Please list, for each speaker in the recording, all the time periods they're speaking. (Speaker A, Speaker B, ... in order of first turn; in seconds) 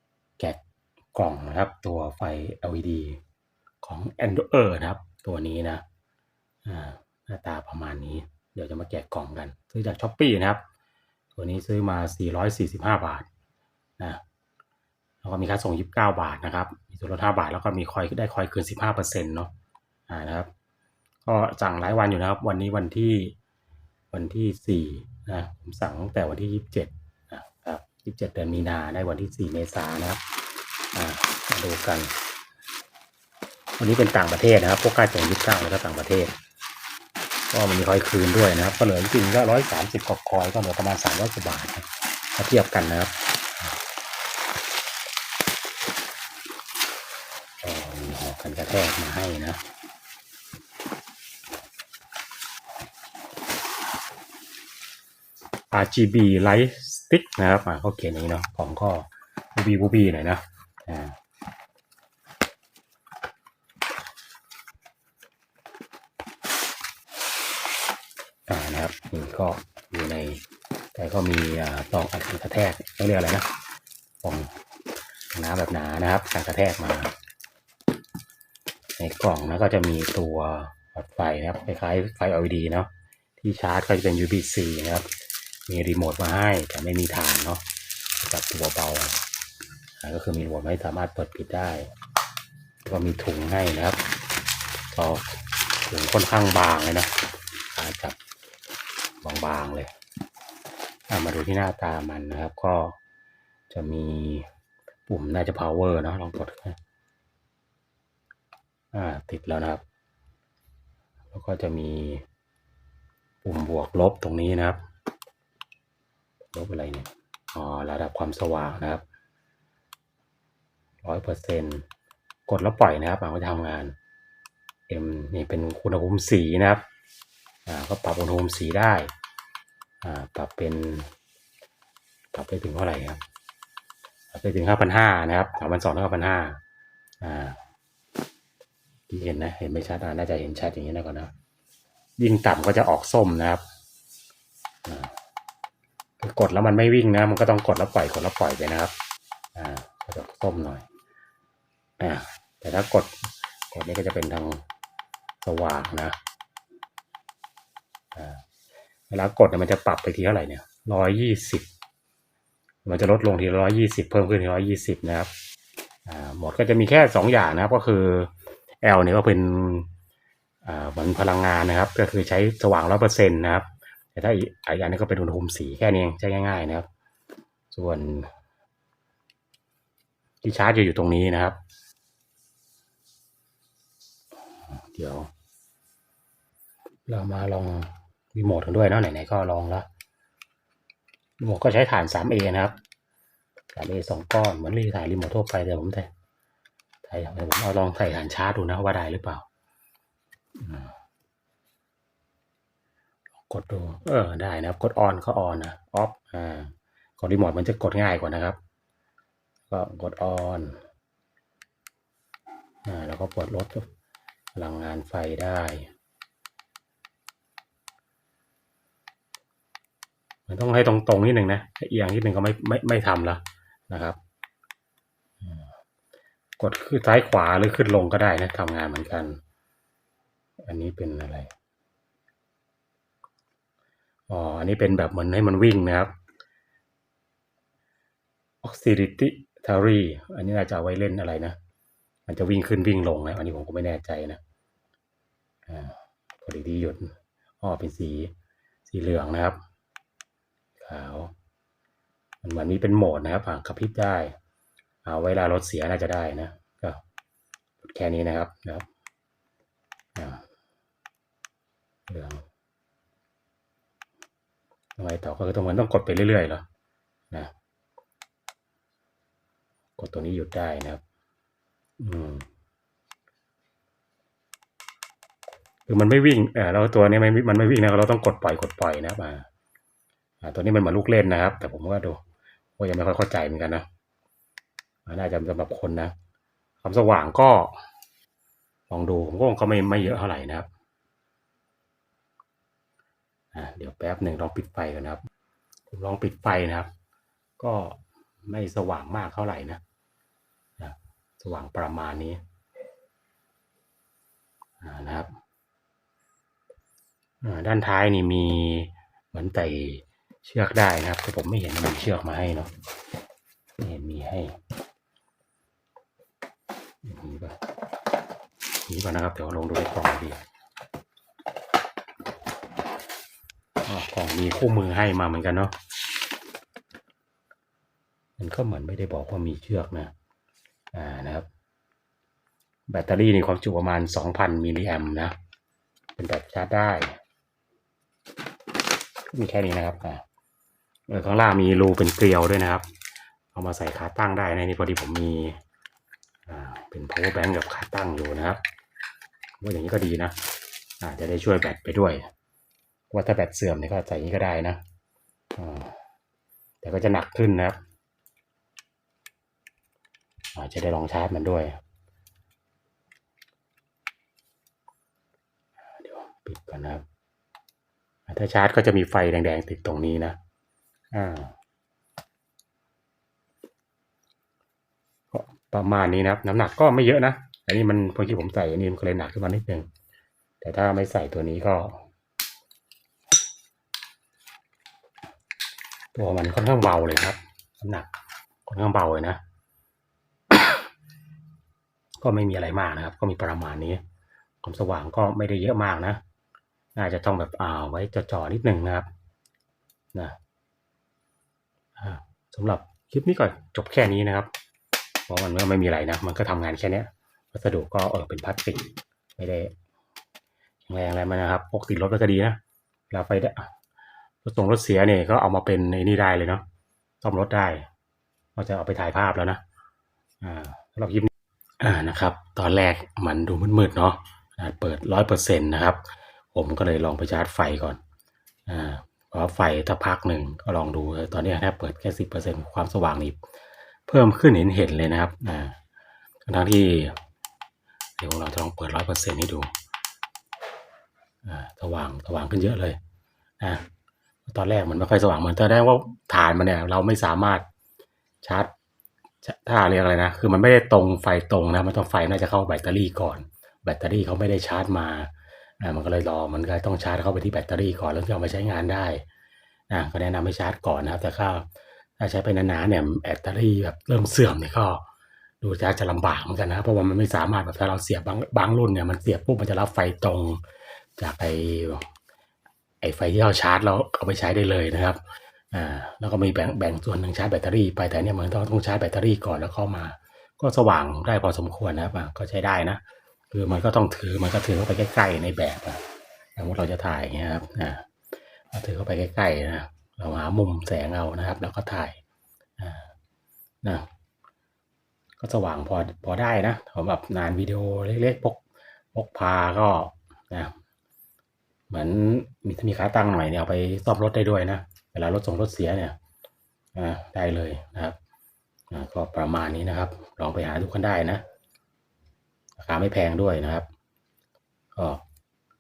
Speaker A: 1.1-3.2, 3.8-5.8, 6.7-10.6, 11.3-13.3, 15.2-19.5, 20.1-20.5, 21.2-23.4, 24.1-30.2, 30.9-32.1, 33.8-36.3, 37.5-43.8, 47.6-49.6, 55.7-61.1, 68.5-70.4, 71.0-73.5, 74.2-74.5, 75.3-77.1, 79.0-85.1, 85.7-87.6, 88.2-89.2, 90.0-91.9, 92.8-94.0, 94.9-95.3, 95.8-97.1, 97.7-98.2, 99.2-99.9, 101.1-103.0, 103.7-104.5, 105.1-106.8, 108.9-109.8, 111.3-112.2, 113.4-114.8, 116.5-119.0, 121.0-121.8, 122.5-124.0, 124.9-126.8, 127.7-129.1, 130.0-131.1, 132.3-133.2, 134.3-136.6, 137.2-137.6, 139.1-141.3, 142.2-143.6, 144.8-145.1, 146.2-148.9, 149.6-150.9, 152.0-154.6, 155.4-156.2, 158.1-158.4, 159.1-161.7, 162.8-165.3, 166.1-169.9, 170.7-176.9, 177.7-178.3, 180.4-181.6, 184.7-185.3, 187.1-189.9, 191.4-192.8, 193.7-196.1, 197.0-199.4, 200.6-200.9, 203.5-208.6, 209.7-210.8, 212.8-213.9, 214.6-215.9, 220.5-224.2, 226.6-229.4, 230.6-231.5, 234.3-236.1, 238.6-241.6, 242.3-244.4, 245.7-248.3, 248.9-249.6, 250.8-251.3, 252.4-254.3, 255.0-257.0, 257.8-258.9, 260.2-260.4, 262.1-262.4, 265.0-266.6, 270.0-271.0, 272.0-272.5, 275.9-279.5, 280.4-282.2, 282.8-283.9, 285.1-286.1, 286.8-287.8, 288.9-290.7, 293.5-295.2, 295.9-296.9, 297.6-299.8, 300.8-302.4, 304.8-305.3, 307.4-312.7, 313.8-314.6, 317.0-317.6, 318.9-320.4, 323.9-325.8, 328.4-330.1, 330.9-331.5, 332.9-335.4, 336.2-337.2, 339.3-340.2, 341.1-342.9, 343.5-345.6, 346.5-348.6, 349.6-350.4, 351.0-352.3, 353.1-354.8, 355.6-356.0, 356.8-357.8, 360.6-361.8, 365.9-367.0, 368.3-370.4, 371.1-371.5, 375.3-379.9, 380.6-382.1, 386.1-388.1, 388.7-389.4, 392.2-394.0, 394.6-396.2, 396.9-399.1, 402.0-404.5, 405.3-409.7, 410.9-412.6, 413.1-413.7, 414.4-416.6, 417.2-417.9, 418.6-419.6, 420.4-428.0, 428.7-433.4, 434.1-435.8, 436.5-437.2, 438.2-439.7, 441.4-443.0, 444.5-447.7, 448.4-448.7, 449.4-459.2, 459.9-461.7, 462.2-465.0, 465.6-470.6, 471.2-472.1, 473.0-486.0, 486.6-488.1, 488.7-492.2, 492.8-493.1, 495.4-498.6, 499.1-500.7, 501.9-506.2, 506.9-508.2, 508.9-511.4, 512.8-513.9, 515.0-515.2